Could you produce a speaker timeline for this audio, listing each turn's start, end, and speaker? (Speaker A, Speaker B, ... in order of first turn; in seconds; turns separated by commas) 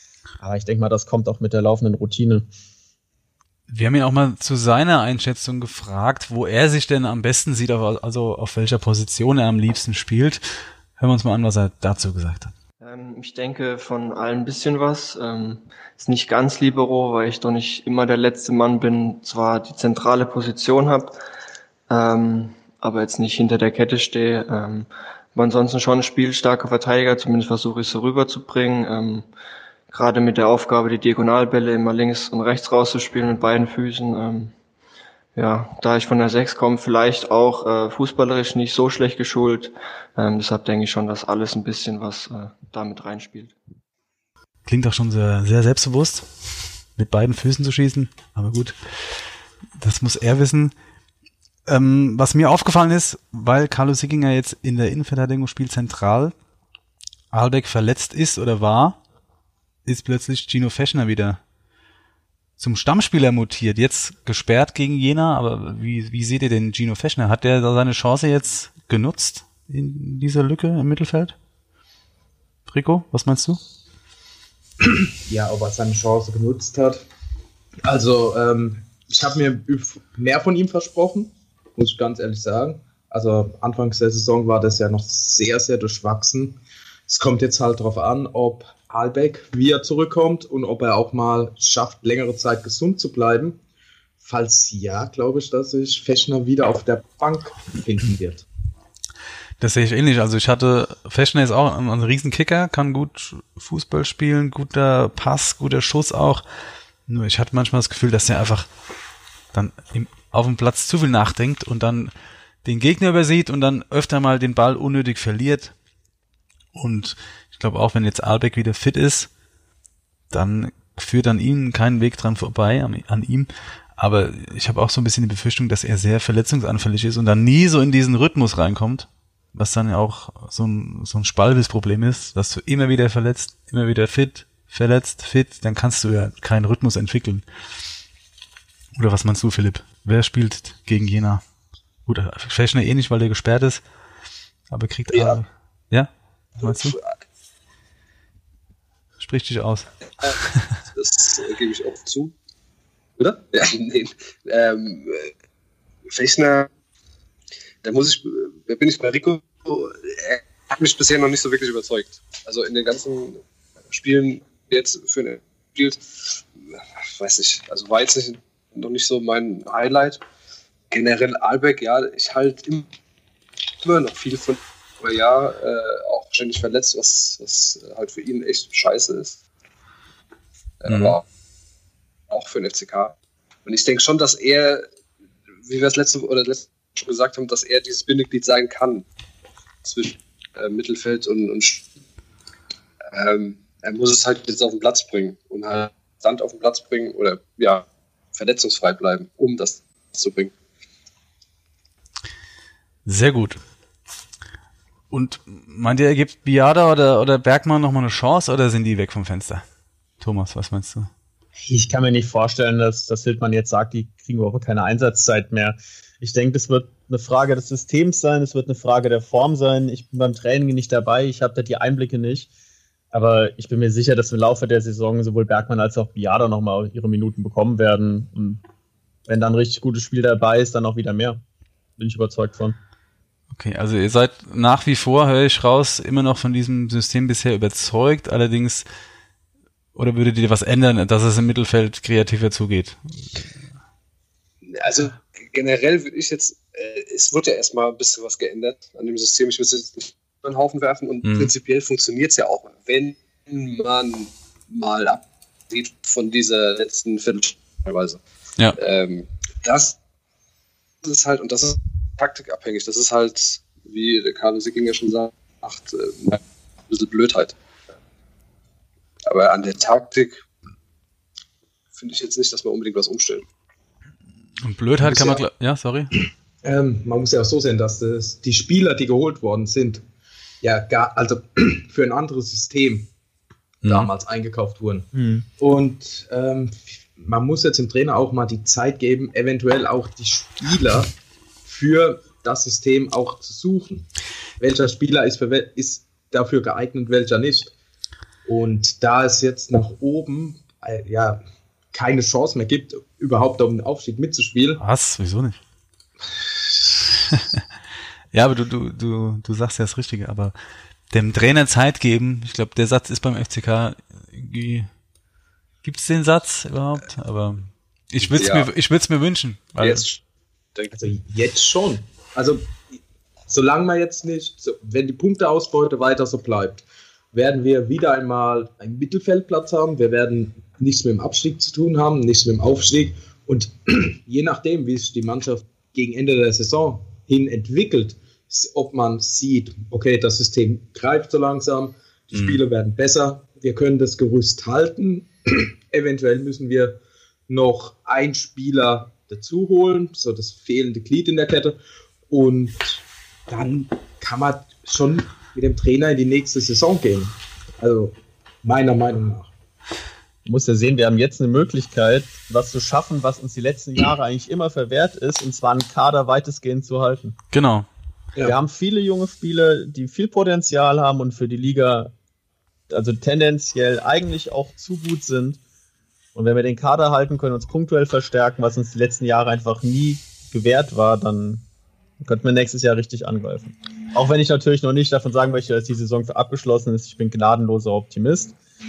Speaker A: 0.4-2.5, Speaker B: 3.7-10.4, Speaker B: 11.0-12.5, Speaker C: 12.8-21.2, Speaker C: 21.9-29.3, Speaker C: 29.9-34.5, Speaker C: 35.3-43.5, Speaker B: 44.6-49.2, Speaker B: 49.8-50.7, Speaker B: 51.6-56.3, Speaker B: 57.3-59.0, Speaker B: 59.8-61.4, Speaker B: 62.6-71.3, Speaker B: 72.7-73.6, Speaker D: 75.2-77.0, Speaker D: 77.8-93.6, Speaker D: 94.2-98.4, Speaker B: 99.6-106.4, Speaker B: 107.1-108.7, Speaker B: 109.5-112.1, Speaker B: 112.6-115.7, Speaker B: 116.7-119.3, Speaker B: 120.3-137.4, Speaker B: 138.9-141.4, Speaker B: 142.1-143.8, Speaker B: 144.7-147.0, Speaker E: 145.1-145.4, Speaker E: 146.6-147.2, Speaker B: 149.2-149.9, Speaker B: 150.4-150.8, Speaker E: 150.9-152.3, Speaker E: 153.2-155.3, Speaker E: 156.1-156.7, Speaker E: 157.8-170.2, Speaker E: 170.9-172.8, Speaker E: 173.8-179.4, Speaker E: 180.8-181.2, Speaker B: 180.9-181.2, Speaker E: 182.3-184.8, Speaker E: 185.6-189.1, Speaker E: 189.8-191.8, Speaker E: 193.1-200.5, Speaker B: 203.1-203.6, Speaker B: 205.1-209.6, Speaker B: 210.2-211.1, Speaker A: 211.7-222.5, Speaker A: 223.1-228.6, Speaker A: 229.3-231.4, Speaker A: 232.0-232.8, Speaker B: 233.5-238.8, Speaker B: 239.9-243.4, Speaker E: 244.6-258.2, Speaker B: 251.2-251.5, Speaker E: 258.7-260.0, Speaker E: 261.0-267.5, Speaker E: 269.2-270.4, Speaker E: 271.9-273.4, Speaker B: 274.6-276.1, Speaker D: 275.0-275.4, Speaker D: 276.1-280.0, Speaker D: 280.6-283.1, Speaker B: 283.8-284.1, Speaker D: 283.9-291.1, Speaker A: 285.1-285.4, Speaker D: 291.6-294.1, Speaker D: 294.6-297.7, Speaker D: 298.4-301.4, Speaker D: 301.9-304.8, Speaker B: 304.8-305.6, Speaker B: 307.3-307.6, Speaker B: 308.3-310.5, Speaker B: 311.1-314.9, Speaker B: 315.8-320.0, Speaker E: 318.2-318.7, Speaker E: 319.8-320.2, Speaker E: 320.7-321.0, Speaker D: 320.9-351.8, Speaker B: 342.3-342.6, Speaker D: 352.3-359.5, Speaker A: 360.4-367.4, Speaker B: 367.5-367.9, Speaker A: 368.4-372.1, Speaker A: 372.9-375.6, Speaker A: 376.3-381.7, Speaker A: 382.2-388.5